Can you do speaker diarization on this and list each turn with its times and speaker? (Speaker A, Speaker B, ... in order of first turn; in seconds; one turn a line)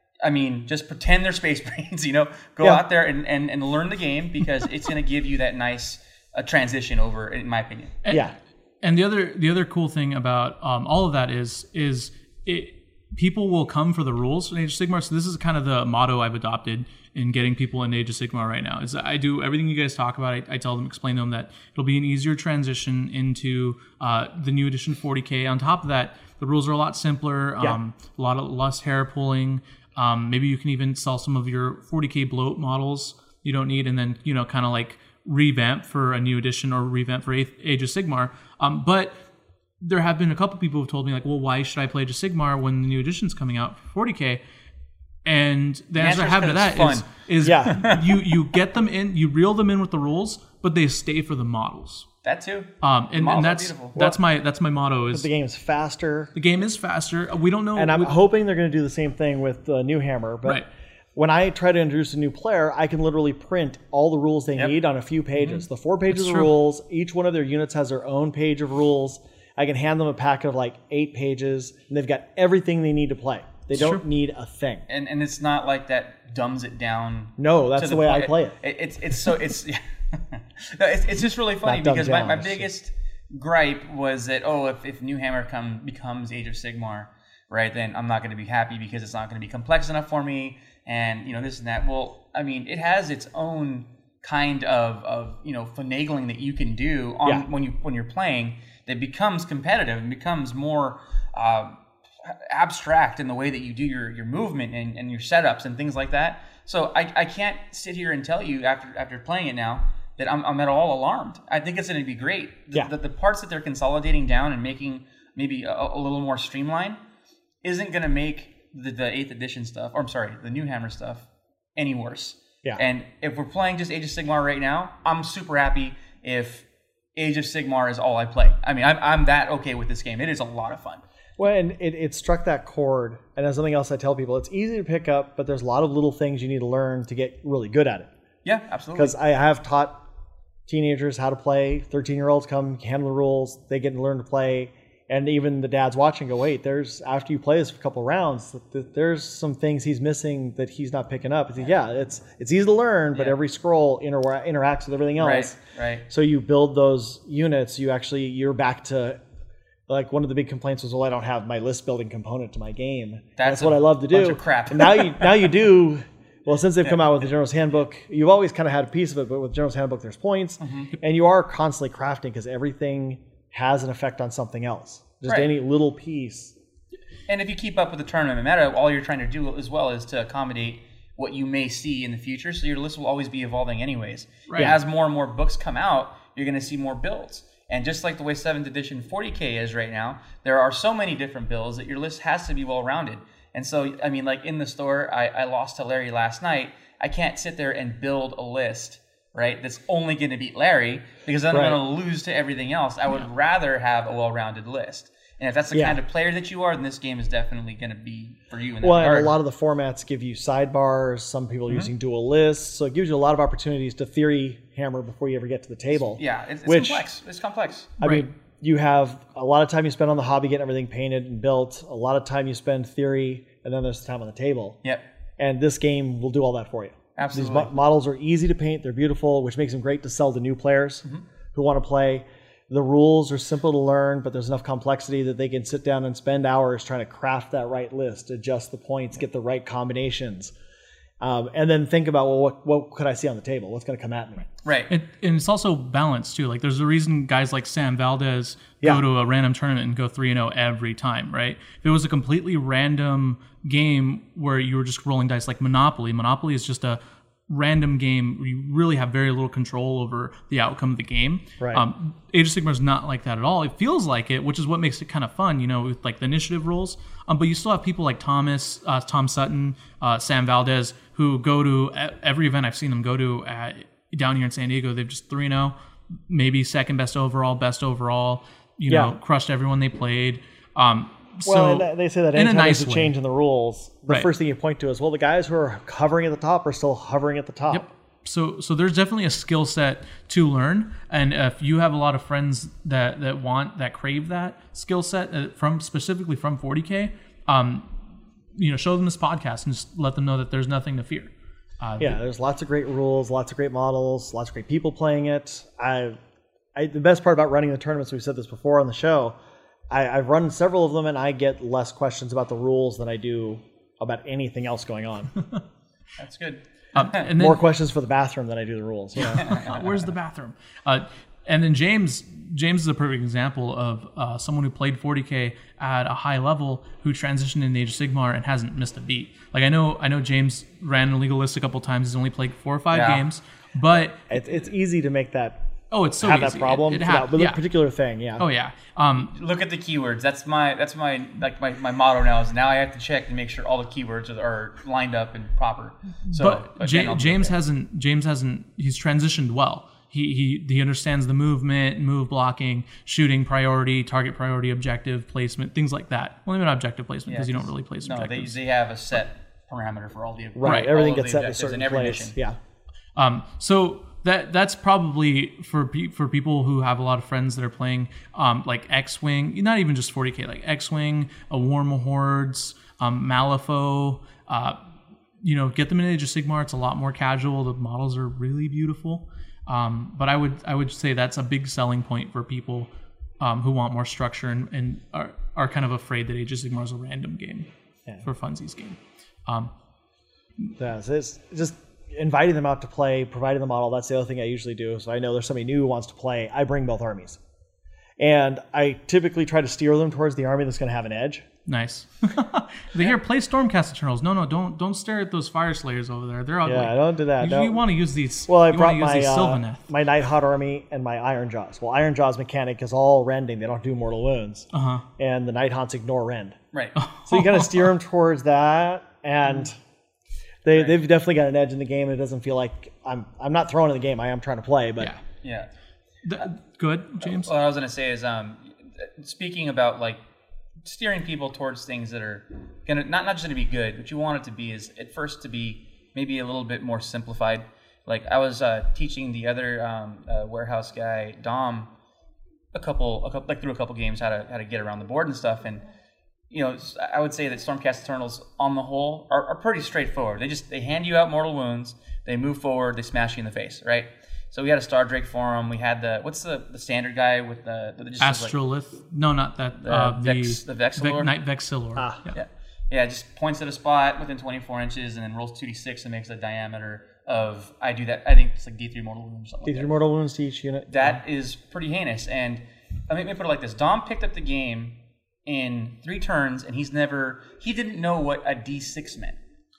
Speaker A: 0.2-8.0
Speaker B: 8.0-39.1
Speaker C: 8.1-8.3
Speaker B: 39.8-44.4
Speaker B: 45.2-52.0
Speaker A: 46.0-47.1
Speaker C: 47.4-47.8
Speaker A: 47.6-48.0
Speaker A: 52.2-54.0
Speaker B: 52.8-55.3
Speaker C: 55.1-56.3
Speaker B: 56.3-58.1
Speaker C: 57.8-60.6
Speaker C: 61.1-74.8
Speaker B: 66.1-66.5
Speaker B: 73.7-74.0
Speaker A: 74.9-117.0
Speaker C: 77.4-78.6
Speaker C: 81.6-82.7
Speaker A: 117.6-131.0
Speaker C: 131.4-138.1
Speaker A: 138.4-139.1
Speaker C: 138.9-140.0
Speaker C: 140.7-155.6
Speaker A: 155.2-156.1
Speaker C: 156.1-159.2
Speaker C: 159.9-176.5
Speaker A: 163.4-165.4
Speaker A: 170.6-170.9
Speaker A: 175.2-175.5
Speaker A: 177.3-209.3
Speaker B: 184.5-184.7
Speaker C: 201.5-201.8
Speaker C: 205.7-206.0
Speaker C: 208.8-217.1
Speaker A: 216.0-217.9
Speaker C: 218.0-224.8
Speaker C: 225.4-240.5
Speaker A: 227.2-227.7
Speaker C: 241.2-244.5
Speaker A: 244.6-244.9
Speaker B: 244.9-275.7
Speaker C: 261.6-261.9
Speaker B: 276.3-283.1
Speaker C: 278.9-279.2
Speaker C: 281.4-287.9
Speaker B: 287.7-297.9
Speaker B: 298.5-302.2
Speaker C: 302.0-306.2
Speaker C: 306.7-309.4
Speaker C: 309.9-315.3
Speaker A: 316.2-317.3
Speaker B: 316.9-317.6
Speaker C: 317.3-319.6
Speaker B: 319.2-334.3
Speaker A: 319.3-319.8
Speaker A: 332.9-333.2
Speaker C: 334.3-335.6
Speaker B: 335.9-337.6
Speaker C: 336.2-338.5
Speaker B: 338.4-339.3
Speaker A: 339.3-347.6
Speaker B: 346.3-358.6
Speaker A: 357.3-362.3
Speaker C: 360.6-362.6
Speaker B: 360.6-360.9
Speaker B: 363.1-374.8
Speaker B: 375.4-387.7
Speaker B: 388.2-389.7
Speaker C: 390.8-397.4
Speaker C: 398.2-401.4
Speaker B: 401.7-409.8
Speaker C: 406.6-407.8
Speaker C: 408.5-416.6
Speaker B: 414.7-415.0
Speaker A: 416.7-417.0
Speaker B: 417.0-417.9
Speaker C: 417.2-419.8
Speaker C: 420.6-425.1
Speaker A: 425.4-425.7
Speaker B: 426.2-427.5
Speaker A: 427.2-430.2
Speaker A: 430.8-441.9
Speaker A: 442.7-445.8
Speaker A: 446.5-458.5
Speaker B: 458.2-462.3
Speaker A: 459.8-461.3
Speaker C: 461.9-462.2
Speaker A: 462.3-469.9
Speaker C: 469.6-471.1
Speaker A: 470.9-479.4